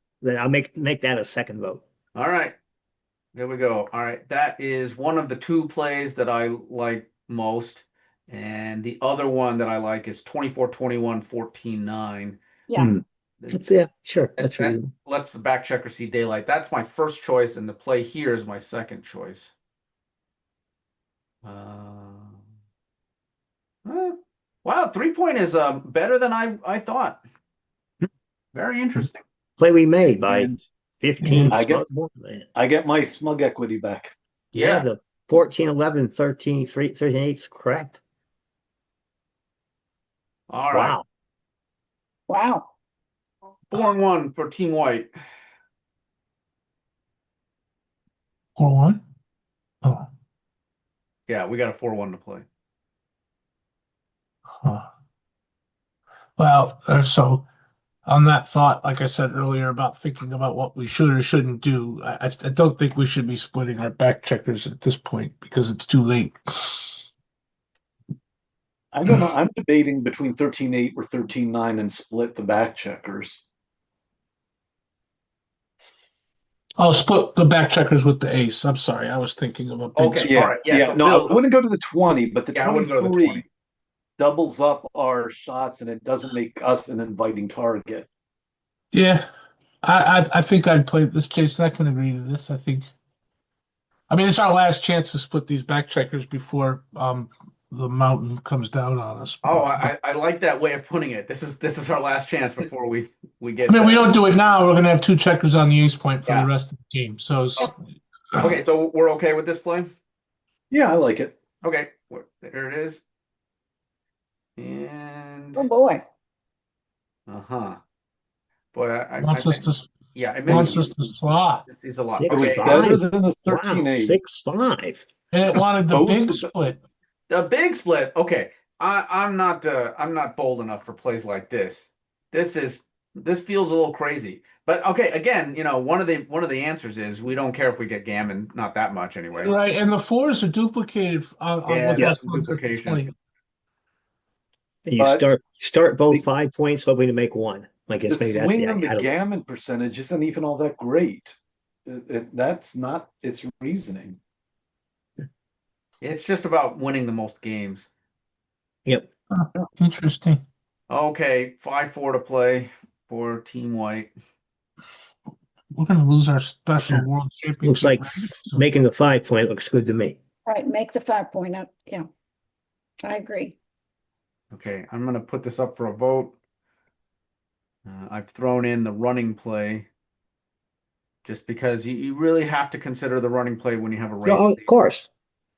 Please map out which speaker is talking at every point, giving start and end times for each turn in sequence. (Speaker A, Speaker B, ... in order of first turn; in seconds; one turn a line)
Speaker A: 0.2-1.8
Speaker B: 2.1-2.5
Speaker B: 3.3-12.4
Speaker C: 12.7-12.9
Speaker A: 12.8-14.9
Speaker B: 14.4-19.5
Speaker B: 21.4-22.4
Speaker B: 23.8-27.2
Speaker B: 28.5-29.2
Speaker A: 29.6-32.5
Speaker D: 30.3-30.6
Speaker E: 31.2-31.6
Speaker D: 31.5-31.8
Speaker D: 32.5-34.1
Speaker B: 34.5-34.9
Speaker A: 34.5-38.0
Speaker B: 40.5-41.0
Speaker A: 40.7-41.0
Speaker C: 42.3-42.7
Speaker B: 43.7-45.1
Speaker E: 48.5-49.0
Speaker B: 51.3-52.5
Speaker E: 54.6-54.9
Speaker E: 56.4-57.4
Speaker E: 58.0-66.9
Speaker D: 68.9-73.4
Speaker E: 76.8-80.3
Speaker B: 80.0-81.4
Speaker D: 80.2-83.5
Speaker B: 82.5-83.4
Speaker D: 84.2-88.1
Speaker E: 88.9-89.3
Speaker E: 89.8-92.9
Speaker E: 94.1-99.9
Speaker B: 99.4-104.1
Speaker E: 103.7-107.7
Speaker B: 108.3-109.9
Speaker D: 110.7-111.3
Speaker B: 111.6-113.0
Speaker B: 114.6-115.6
Speaker C: 115.5-116.0
Speaker B: 117.3-117.8
Speaker B: 118.7-121.0
Speaker E: 119.2-119.9
Speaker E: 120.5-121.6
Speaker A: 120.5-120.7
Speaker B: 121.7-122.9
Speaker A: 122.2-125.1
Speaker D: 122.3-124.2
Speaker E: 125.3-126.8
Speaker D: 125.9-126.5
Speaker B: 127.3-139.5
Speaker E: 139.3-143.1
Speaker B: 141.7-143.1
Speaker A: 144.8-149.1
Speaker D: 145.0-145.2
Speaker D: 148.1-154.2
Speaker B: 156.0-157.9
Speaker E: 159.3-160.4
Speaker B: 160.9-164.1
Speaker E: 165.7-168.6
Speaker A: 167.6-170.2
Speaker C: 170.4-172.1
Speaker C: 173.1-173.6
Speaker B: 174.5-176.3
Speaker B: 177.8-179.9
Speaker B: 181.2-184.7
Speaker A: 184.2-185.1